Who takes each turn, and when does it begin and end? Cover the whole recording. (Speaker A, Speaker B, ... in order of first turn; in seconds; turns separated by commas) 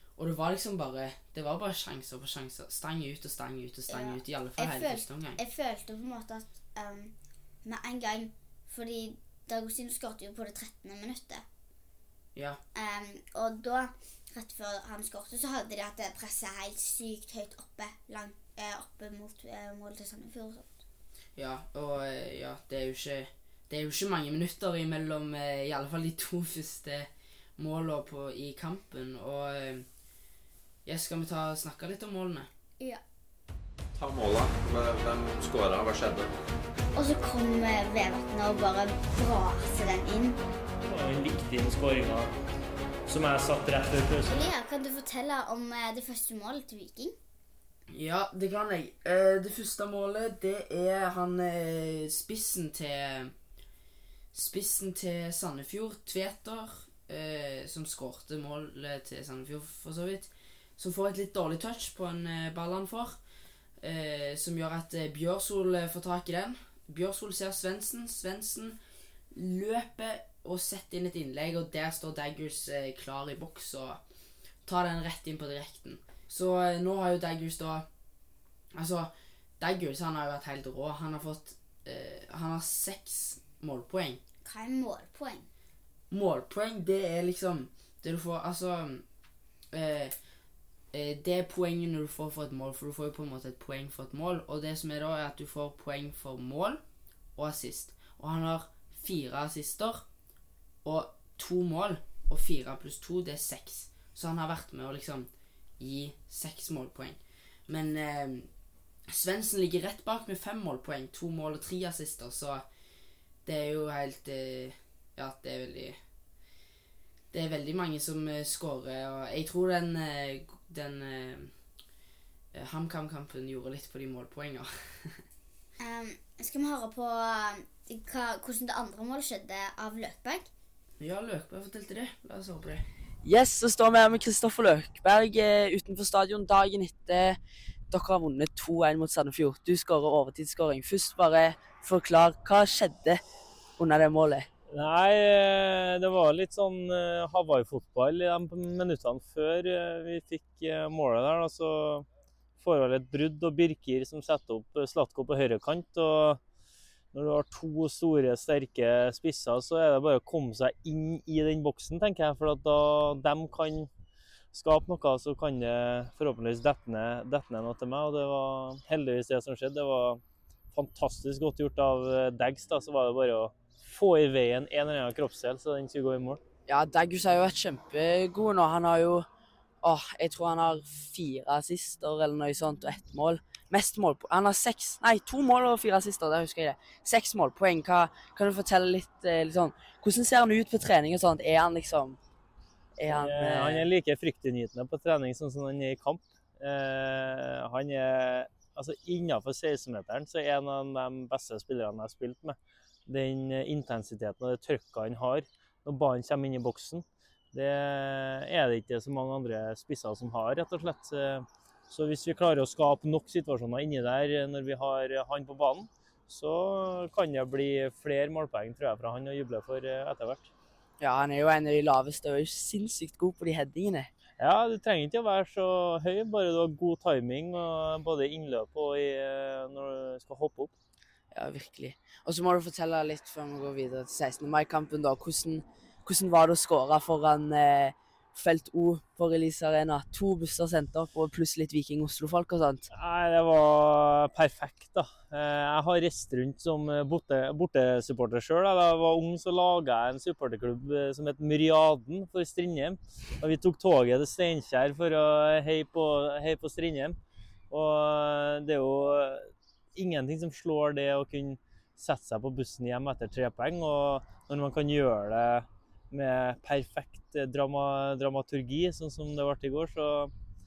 Speaker A: 0.2-5.4, Speaker B: 3.9-7.1, Speaker B: 7.6-11.4, Speaker A: 12.3-12.6, Speaker B: 12.7-20.7, Speaker A: 21.4-29.9, Speaker A: 30.9-32.5, Speaker C: 34.0-36.3, Speaker B: 37.0-40.4, Speaker D: 40.9-42.3, Speaker D: 43.1-44.4, Speaker B: 44.3-47.1, Speaker A: 47.9-53.3, Speaker A: 54.3-63.2, Speaker A: 63.8-68.8, Speaker A: 69.3-74.0, Speaker A: 74.7-77.9, Speaker A: 78.7-84.2, Speaker B: 84.4-85.5, Speaker A: 86.1-89.0, Speaker A: 89.7-90.2, Speaker A: 90.9-96.8, Speaker A: 97.4-100.1, Speaker A: 100.8-108.5, Speaker A: 109.1-112.7, Speaker A: 113.5-116.0, Speaker A: 117.3-121.5, Speaker A: 122.5-125.2, Speaker B: 125.8-130.5, Speaker A: 131.0-132.8, Speaker E: 133.2-137.4, Speaker E: 137.9-143.2, Speaker E: 143.8-144.5, Speaker D: 144.7-152.1, Speaker D: 152.6-156.4, Speaker D: 157.1-163.9, Speaker D: 164.5-170.2, Speaker D: 170.7-176.4, Speaker E: 176.7-179.3, Speaker E: 179.8-192.2, Speaker E: 193.0-193.9, Speaker D: 193.1-220.5, Speaker E: 221.0-224.1, Speaker D: 224.4-230.7, Speaker E: 231.3-242.9, Speaker D: 242.9-257.2, Speaker D: 257.7-270.3